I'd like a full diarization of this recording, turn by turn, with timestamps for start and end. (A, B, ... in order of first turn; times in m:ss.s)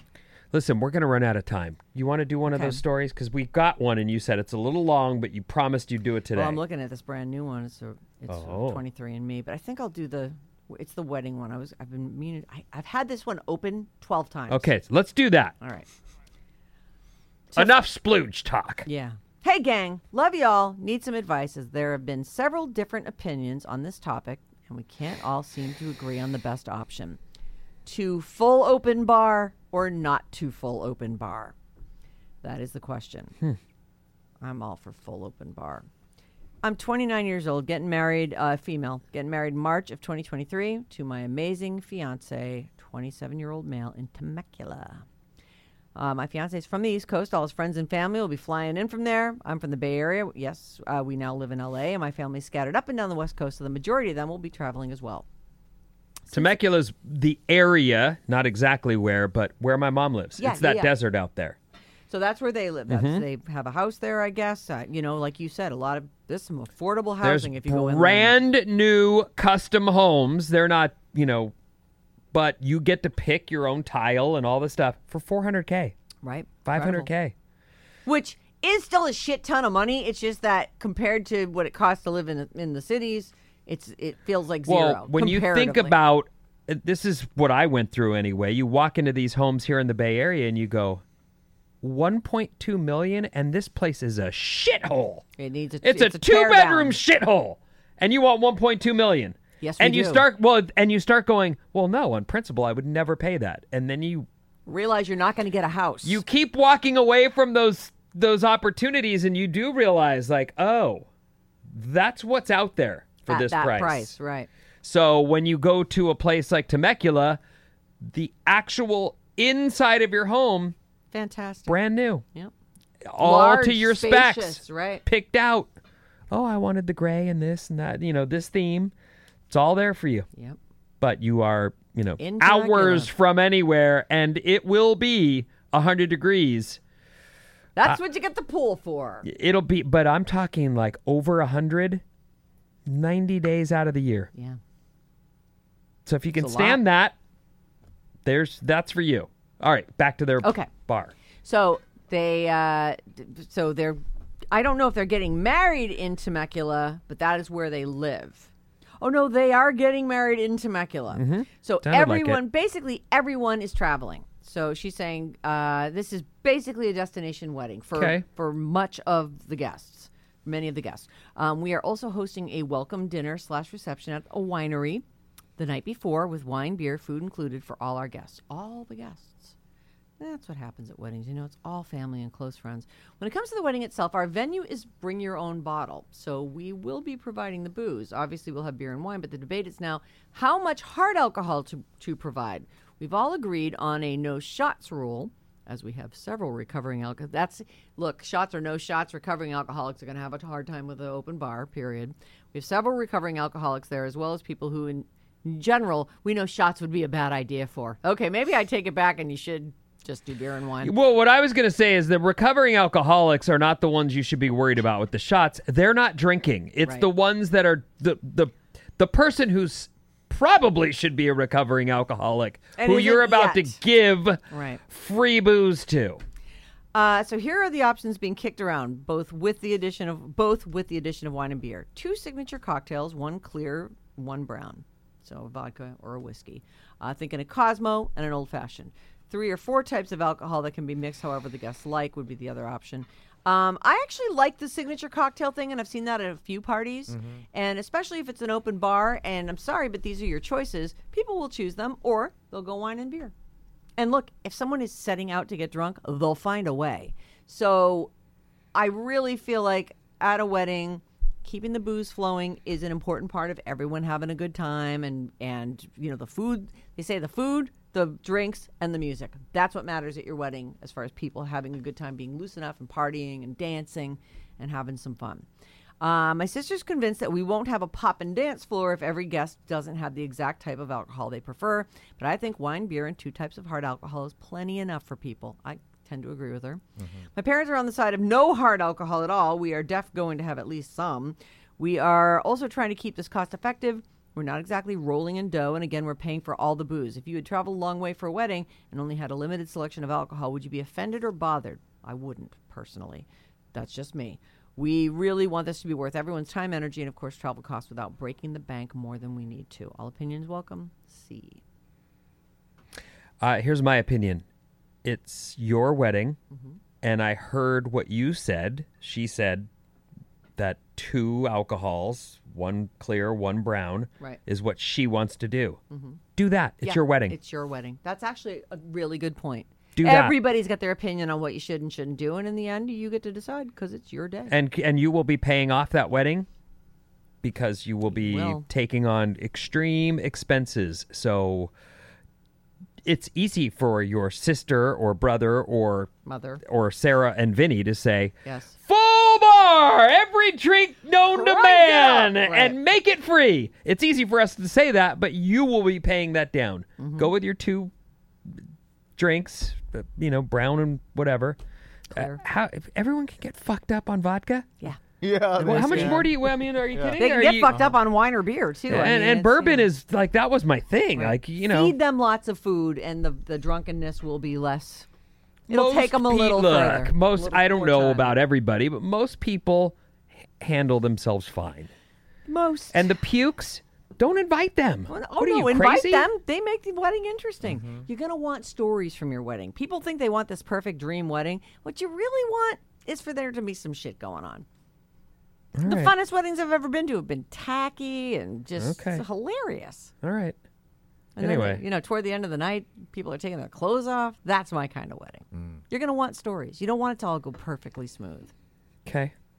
0:00.5-0:06.6 A
0:02.5-0:02.8 B
0:06.3-0:14.7 B
0:08.3-0:08.8 A
0:14.5-0:15.6 A
0:15.6-0:15.9 B
0:17.5-0:17.8 B
0:17.6-0:18.9 A
0:18.9-0:27.2 B
0:27.8-0:31.6 B
0:32.4-0:33.3 B
0:34.4-0:35.9 B
0:36.6-0:45.0 B
0:46.0-0:55.3 B
0:56.3-0:56.6 B
0:56.3-1:01.6 A
1:00.4-1:00.9 B
1:02.1-1:08.4 B
1:02.9-1:03.2 A
1:07.2-1:11.5 A
1:12.3-1:16.0 A
1:16.2-1:17.1 B
1:16.7-1:17.3 A
1:18.1-1:26.0 B
1:24.7-1:31.0 A
1:31.8-1:35.3 A
1:35.4-1:37.0 B
1:35.8-1:44.3 A
1:39.6-1:40.2 B
1:44.7-1:46.2 B
1:46.0-1:51.1 A
1:51.7-1:54.2 A
1:53.3-1:54.5 B
1:54.8-1:57.4 A
1:58.0-2:00.8 A
2:01.1-2:01.8 B
2:01.7-2:02.2 A
2:03.1-2:05.7 A
2:03.2-2:05.0 B
2:06.3-2:08.9 A
2:09.5-2:10.3 A
2:11.0-2:16.8 A
2:12.2-2:13.1 B
2:17.8-2:19.3 B
2:19.2-2:22.0 A
2:22.9-2:24.3 A
2:26.1-2:27.2 A
2:26.4-2:26.8 B
2:28.2-2:31.2 A
2:30.4-2:30.7 B
2:31.4-2:55.0 B
2:41.1-2:42.4 A
2:48.0-2:48.2 A
2:55.6-2:59.5 B
3:00.2-3:30.9 B
3:30.8-3:46.2 A
3:42.8-3:43.8 B
3:44.5-3:44.8 B
3:46.9-4:13.3 B
4:07.1-4:07.4 C
4:14.0-4:18.1 B
4:18.7-4:35.5 B
4:36.0-5:11.6 B
4:47.0-4:47.3 C
5:13.4-5:14.4 A
5:15.0-5:16.4 A
5:16.5-5:16.8 B
5:17.0-5:19.7 A
5:20.6-5:25.8 A
5:25.9-5:26.2 B
5:26.4-5:27.4 A
5:26.8-5:34.6 B
5:30.0-5:30.4 A
5:34.5-5:36.5 A
5:37.4-5:41.7 A
5:38.1-5:38.6 B
5:43.0-5:46.1 A
5:46.3-5:46.6 B
5:46.6-5:48.4 A
5:48.4-5:48.8 B
5:48.9-5:57.9 A
5:51.3-5:52.8 B
5:57.0-5:57.3 B
5:59.2-6:01.6 A
6:02.1-6:02.4 B
6:02.2-6:04.7 A
6:05.2-6:08.0 C
6:05.6-6:06.2 B
6:05.6-6:07.8 A
6:07.2-6:09.9 B
6:08.9-6:12.0 A
6:11.2-6:15.1 B
6:15.7-6:20.0 A
6:15.7-6:18.3 B
6:20.6-6:21.9 A
6:22.5-6:23.0 B
6:22.9-6:26.3 A
6:25.1-6:34.7 B
6:27.6-6:28.1 C
6:35.8-6:36.1 A
6:35.8-6:40.1 B
6:38.8-6:39.2 A
6:40.2-6:40.6 A
6:41.4-6:48.5 B
6:41.4-6:41.8 A
6:45.5-6:45.8 C
6:49.1-6:49.3 A